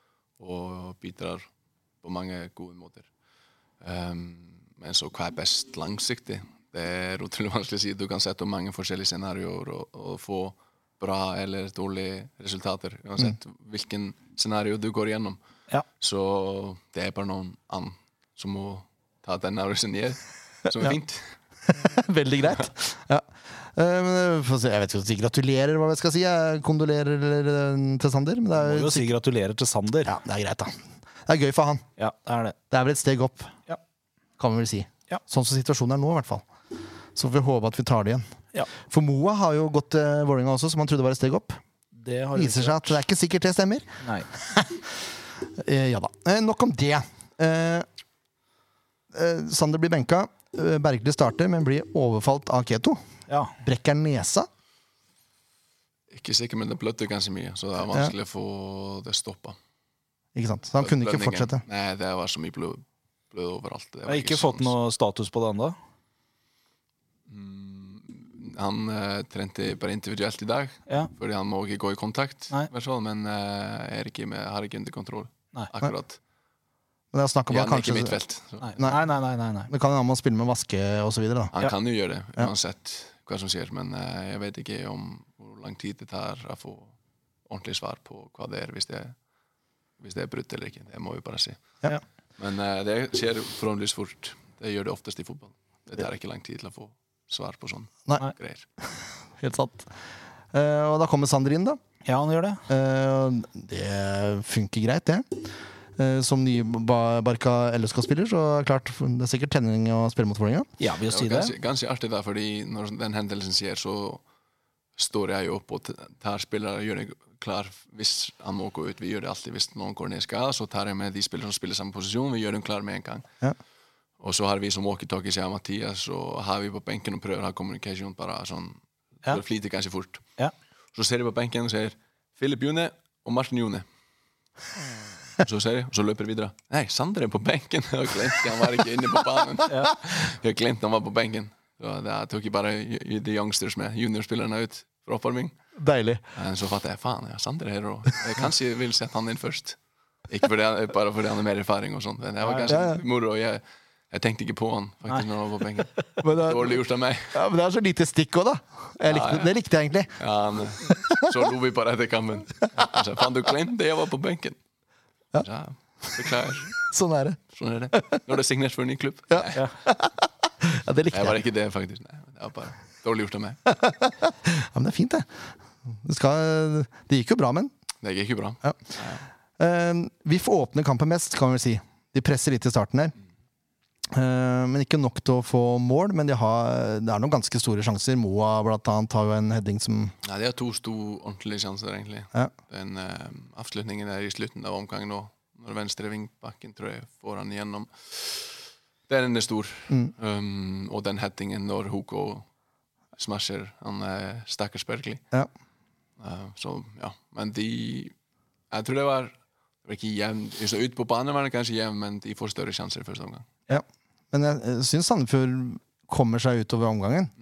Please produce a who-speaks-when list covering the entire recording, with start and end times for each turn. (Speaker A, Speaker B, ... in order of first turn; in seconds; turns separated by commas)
Speaker A: 0.4-1.5, Speaker A: 2.0-3.1, Speaker A: 3.8-15.4, Speaker A: 16.0-21.4, Speaker B: 21.7-29.0, Speaker C: 28.6-30.1, Speaker B: 30.0-31.8, Speaker C: 32.0-32.5, Speaker B: 32.7-33.5, Speaker B: 34.4-36.4, Speaker B: 37.1-41.6, Speaker C: 41.9-43.0, Speaker B: 42.3-47.9, Speaker C: 44.0-44.3, Speaker B: 49.1-53.0, Speaker B: 53.6-54.5, Speaker A: 56.1-59.6, Speaker B: 60.3-61.6, Speaker A: 60.8-64.7, Speaker C: 64.0-65.8, Speaker A: 67.3-76.2, Speaker C: 70.9-71.1, Speaker B: 77.1-78.2, Speaker A: 77.5-78.7, Speaker C: 78.6-79.7, Speaker B: 79.7-81.5, Speaker A: 81.5-86.9, Speaker A: 87.5-89.2, Speaker A: 90.0-91.7, Speaker A: 92.4-98.6, Speaker B: 98.8-99.9, Speaker B: 100.5-101.8, Speaker C: 102.0-102.6, Speaker B: 102.7-105.4, Speaker B: 106.0-110.7, Speaker C: 110.8-111.5, Speaker A: 111.1-114.2, Speaker A: 115.0-123.2, Speaker A: 124.2-130.2, Speaker A: 130.9-133.8, Speaker A: 135.4-145.6, Speaker B: 145.8-146.2, Speaker A: 146.3-157.3, Speaker C: 152.4-152.8, Speaker B: 152.7-153.0, Speaker B: 156.2-156.8, Speaker B: 157.3-160.1, Speaker A: 159.1-159.5, Speaker A: 160.2-164.6, Speaker A: 165.4-166.8, Speaker B: 166.8-167.4, Speaker A: 167.5-169.7, Speaker B: 167.9-168.2, Speaker B: 169.3-171.4, Speaker A: 171.1-173.6, Speaker B: 173.7-175.3, Speaker B: 175.9-177.7, Speaker A: 178.0-179.2, Speaker B: 179.6-183.1, Speaker B: 184.1-190.1, Speaker A: 190.2-202.4, Speaker A: 203.2-205.2, Speaker A: 206.2-208.1, Speaker A: 208.7-213.5, Speaker B: 213.7-217.3